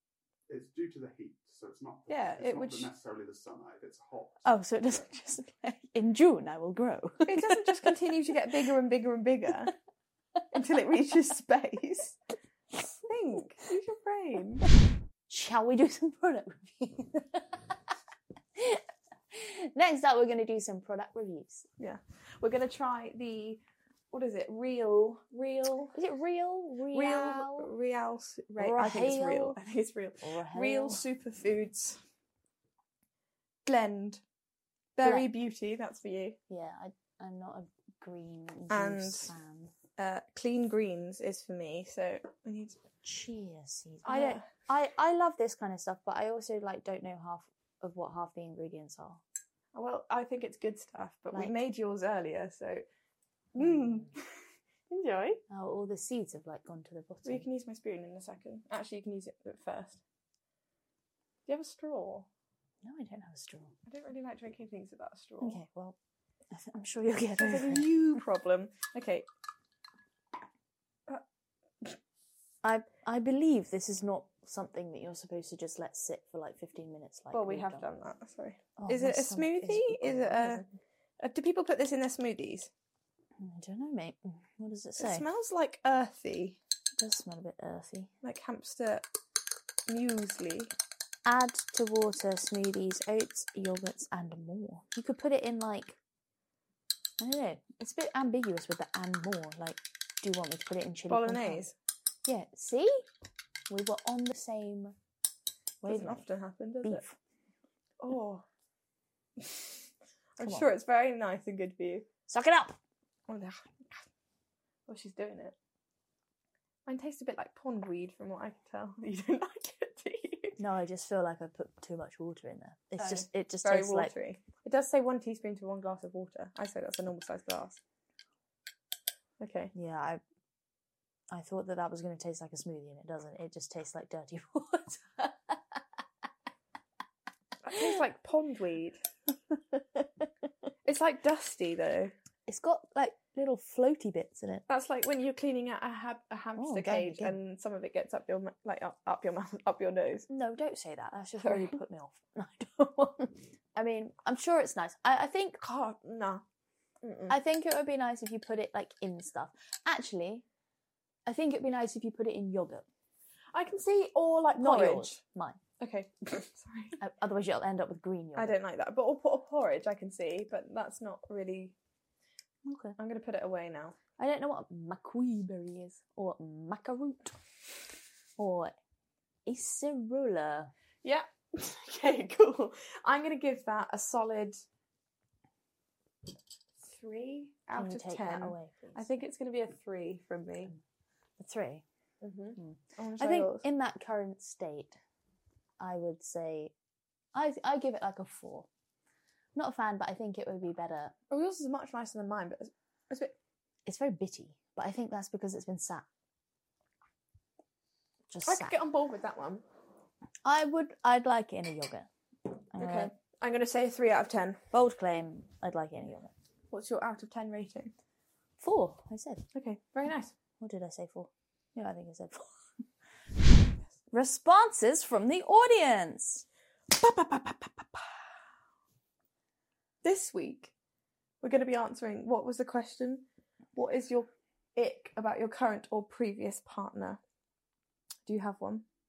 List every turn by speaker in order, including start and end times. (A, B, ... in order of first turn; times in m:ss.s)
0:00.5-0:05.1 A
0:02.1-0:02.9 B
0:04.4-0:07.9 C
0:07.3-0:09.7 B
0:10.5-0:12.2 B
0:13.0-0:14.6 B
0:15.3-0:17.6 C
0:18.6-0:21.7 C
0:21.8-0:26.0 B
0:26.0-0:27.7 C
0:26.9-0:32.0 B
0:28.6-0:29.6 C
0:30.2-0:31.0 C
0:33.6-0:34.2 B
0:35.0-0:36.4 B
0:35.0-0:35.3 C
0:36.5-0:39.7 C
0:38.7-0:39.3 B
0:40.0-0:42.8 B
0:43.0-0:49.2 C
0:44.0-0:44.5 B
0:49.7-0:52.8 B
0:53.6-0:54.3 B
0:53.6-0:54.1 C
0:54.9-0:55.4 B
0:55.5-0:57.4 C
0:57.2-1:00.0 B
1:01.5-1:02.3 B
1:02.8-1:03.7 C
1:03.9-1:05.6 B
1:05.4-1:06.0 C
1:06.5-1:07.9 C
1:07.4-1:09.3 B
1:12.6-1:17.8 C
1:17.3-1:20.7 B
1:18.8-1:20.7 C
1:21.2-1:22.7 B
1:23.4-1:25.3 C
1:25.0-1:26.6 B
1:27.0-1:28.1 C
1:28.2-1:29.0 B
1:29.9-1:30.7 B
1:31.3-1:36.0 C
1:37.2-1:41.6 C
1:41.1-1:41.7 B
1:42.3-1:43.1 C
1:43.7-1:45.0 C
1:45.8-1:46.2 C
1:45.8-1:47.0 B
1:46.8-1:47.2 C
1:48.0-1:48.4 B
1:49.4-1:49.8 B
1:50.4-1:52.1 B
1:50.4-1:50.7 C
1:52.3-1:52.8 C
1:53.3-1:54.1 B
1:54.9-1:55.6 B
1:56.9-2:00.6 B
2:00.6-2:04.1 C
2:03.0-2:07.8 B
2:09.4-2:09.7 B
2:09.8-2:10.2 C
2:11.3-2:15.6 C
2:17.6-2:19.0 B
2:20.8-2:22.1 B
2:22.5-2:24.6 C
2:24.7-2:30.3 B
2:26.6-2:27.4 C
2:30.3-2:35.6 C
2:31.4-2:31.8 B
2:35.6-2:36.4 B
2:37.0-2:37.4 B
2:37.3-2:40.4 C
2:41.3-2:42.8 C
2:43.5-2:45.2 B
2:44.6-2:45.6 C
2:45.8-2:47.0 B
2:47.0-2:48.6 C
2:48.4-2:51.8 B
2:52.6-2:53.0 C
2:53.0-2:54.0 B
2:54.2-2:57.4 C
2:58.4-2:58.8 C
2:59.5-3:00.7 C
3:01.0-3:04.6 B
3:06.8-3:10.7 B
3:07.7-3:09.2 C
3:11.4-3:11.8 C
3:12.2-3:13.7 B
3:12.6-3:15.0 C
3:15.8-3:16.7 C
3:17.3-3:18.7 C
3:19.6-3:21.1 C
3:21.3-3:23.4 B
3:23.9-3:26.1 C
3:28.3-3:28.8 C
3:28.5-3:29.6 B
3:30.4-3:32.1 C
3:32.7-3:33.1 C
3:32.8-3:34.6 B
3:34.7-3:36.3 C
3:36.7-3:37.9 B
3:38.6-3:39.4 C
3:39.5-3:40.3 B
3:40.6-3:42.5 C
3:44.1-3:46.4 C
3:46.9-3:48.1 B
3:50.0-3:50.7 B
3:51.4-3:57.2 B
3:58.3-3:58.8 B